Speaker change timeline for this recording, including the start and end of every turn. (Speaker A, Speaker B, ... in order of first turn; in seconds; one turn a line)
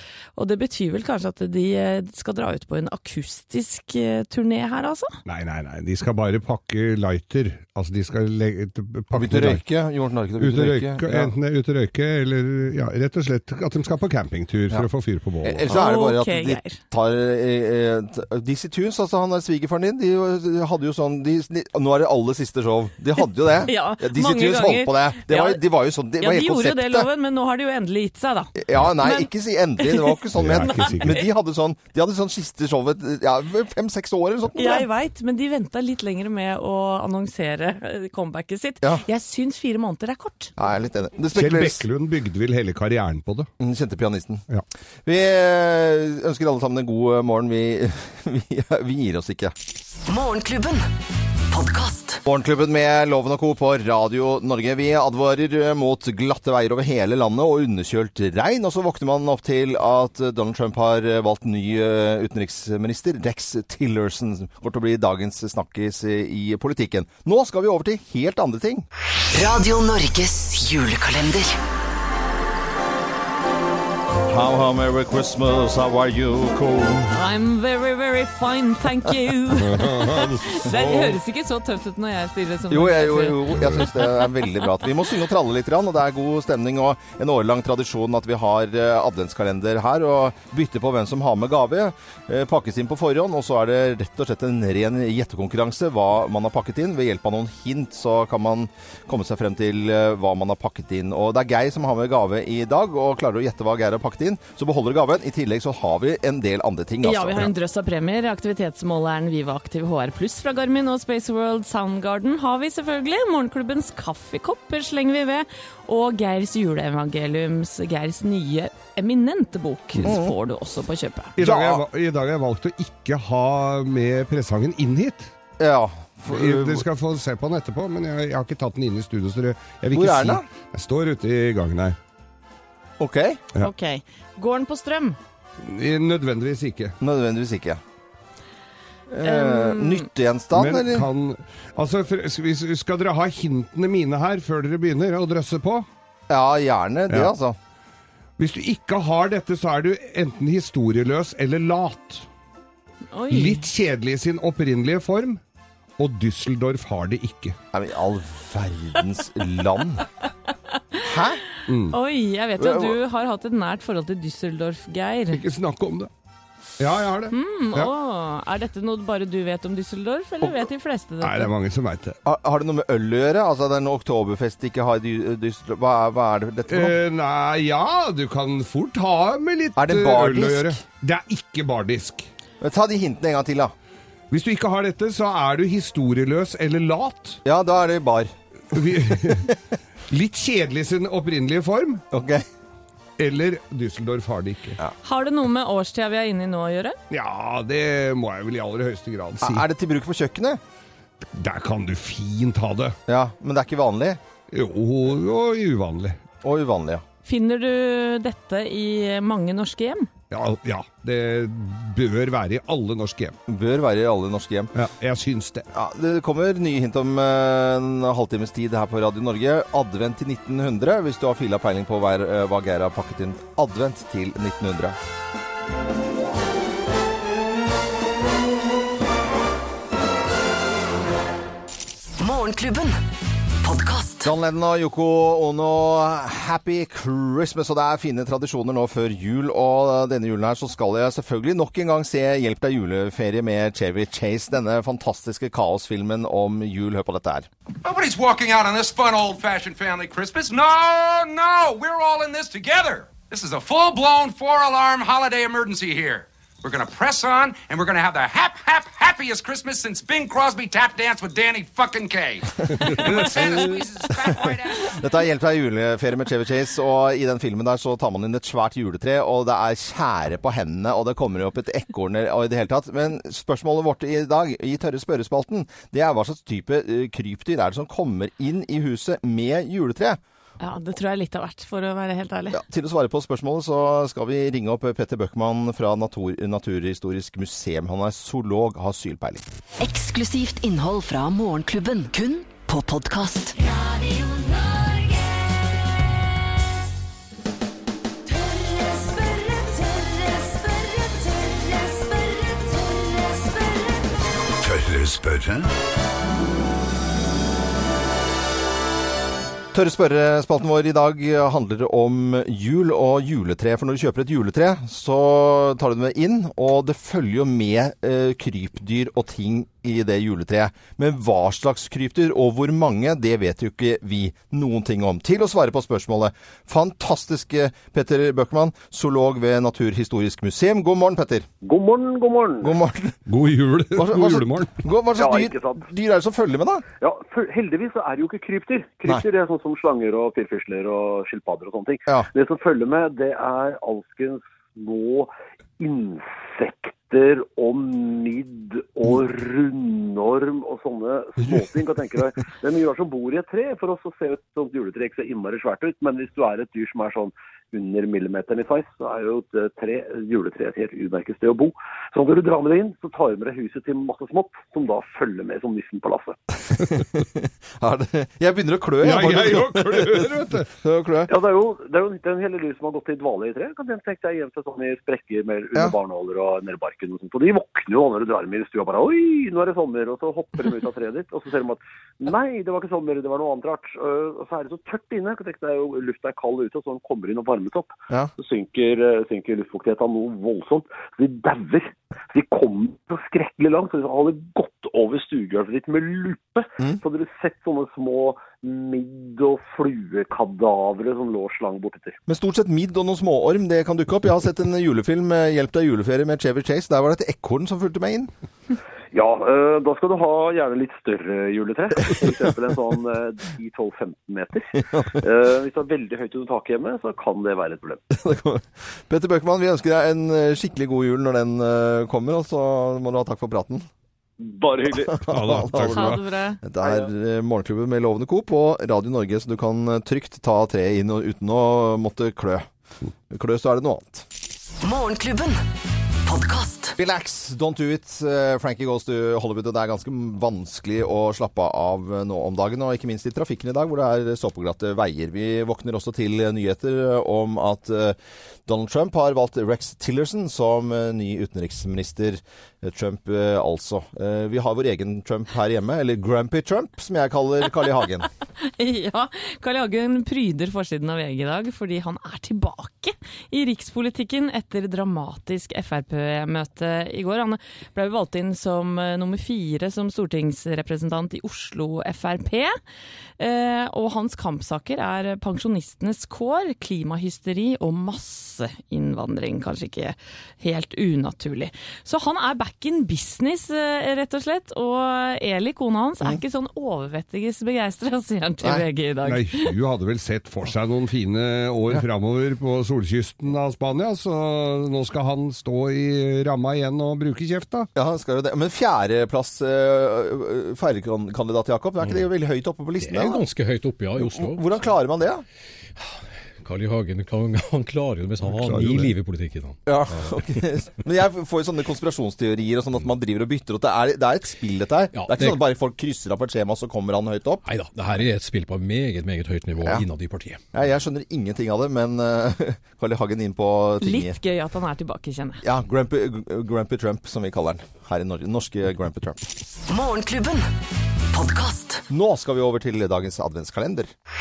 Speaker A: 0.3-5.2
Speaker B: 5.2-9.6
Speaker C: 9.1-11.3
Speaker B: 10.4-15.7
Speaker C: 15.4-27.1
Speaker A: 15.7-16.8
Speaker A: 23.6-25.6
Speaker A: 26.2-31.3
Speaker C: 28.6-34.9
Speaker B: 30.3-31.2
Speaker A: 34.5-40.5
Speaker C: 40.6-41.8
Speaker B: 41.3-43.5
Speaker C: 43.6-44.4
Speaker C: 45.0-49.5
Speaker D: 50.1-50.9
Speaker D: 51.5-52.2
Speaker C: 52.2-68.8
Speaker D: 69.3-71.6
Speaker C: 74.2-77.1
Speaker A: 77.1-84.6
Speaker B: 79.6-80.4
Speaker C: 80.7-81.1
Speaker C: 82.7-107.5
Speaker B: 83.6-83.9
Speaker A: 107.0-121.3
Speaker C: 120.0-120.3
Speaker B: 121.4-125.3
Speaker C: 121.4-121.8
Speaker C: 125.6-126.8
Speaker B: 126.3-131.9
Speaker C: 129.9-130.4
Speaker C: 133.0-133.4
Speaker A: 133.6-135.2
Speaker B: 135.6-136.9
Speaker C: 137.0-137.8
Speaker C: 139.1-141.1
Speaker A: 139.2-140.1
Speaker B: 140.5-145.9
Speaker C: 146.3-147.6
Speaker B: 148.4-152.2
Speaker A: 153.1-153.7
Speaker B: 153.3-155.4
Speaker B: 156.0-157.6
Speaker C: 157.7-160.1
Speaker C: 161.0-161.4
Speaker B: 161.7-162.0
Speaker A: 161.9-165.4
Speaker C: 162.6-163.0
Speaker B: 165.3-166.1
Speaker B: 166.8-167.9
Speaker A: 167.3-171.5
Speaker B: 171.2-172.2
Speaker C: 172.2-176.9
Speaker B: 176.7-182.3
Speaker C: 179.8-180.8
Speaker C: 182.6-183.7
Speaker B: 184.3-187.4
Speaker C: 187.4-189.5
Speaker B: 188.7-189.5
Speaker B: 190.1-192.0
Speaker C: 192.1-192.4
Speaker B: 193.2-194.8
Speaker A: 195.0-197.0
Speaker B: 197.1-199.7
Speaker C: 199.4-200.6
Speaker B: 201.3-202.9
Speaker C: 203.1-204.2
Speaker B: 204.5-206.2
Speaker C: 206.4-207.0
Speaker A: 207.2-210.1
Speaker B: 210.3-213.3
Speaker C: 213.5-214.7
Speaker B: 214.7-215.6
Speaker C: 215.7-224.9
Speaker D: 232.2-233.0
Speaker D: 233.6-234.3
Speaker C: 234.2-247.5
Speaker E: 247.8-265.0
Speaker C: 262.8-263.7
Speaker B: 262.9-263.2
Speaker C: 264.2-280.2
Speaker A: 280.6-282.6
Speaker C: 282.5-289.4
Speaker D: 289.8-293.6
Speaker F: 293.6-295.7
Speaker F: 298.3-304.1
Speaker C: 309.7-331.5
Speaker G: 331.6-332.8
Speaker C: 332.6-333.2
Speaker B: 333.3-334.8
Speaker C: 333.9-336.8
Speaker G: 335.2-335.8
Speaker G: 337.0-366.4
Speaker C: 366.7-371.3
Speaker B: 369.0-370.7
Speaker G: 371.3-402.2
Speaker C: 402.3-408.3
Speaker G: 409.1-418.0
Speaker C: 418.1-423.9
Speaker G: 424.4-425.3
Speaker C: 425.2-432.7
Speaker B: 425.3-426.2
Speaker A: 425.8-426.6
Speaker C: 433.3-434.2
Speaker D: 434.8-435.6
Speaker D: 436.2-436.9
Speaker C: 437.0-458.3
Speaker A: 458.6-472.8
Speaker A: 473.4-489.7
Speaker B: 489.2-497.9
Speaker C: 497.9-503.4
Speaker H: 503.0-504.7
Speaker C: 504.1-505.4
Speaker H: 506.0-510.6
Speaker B: 508.4-509.1
Speaker C: 509.9-517.6
Speaker H: 515.1-515.6
Speaker H: 517.6-520.6
Speaker C: 520.7-524.4
Speaker A: 524.0-525.6
Speaker C: 525.6-529.4
Speaker D: 529.9-530.7
Speaker D: 531.3-532.0
Speaker C: 532.1-534.1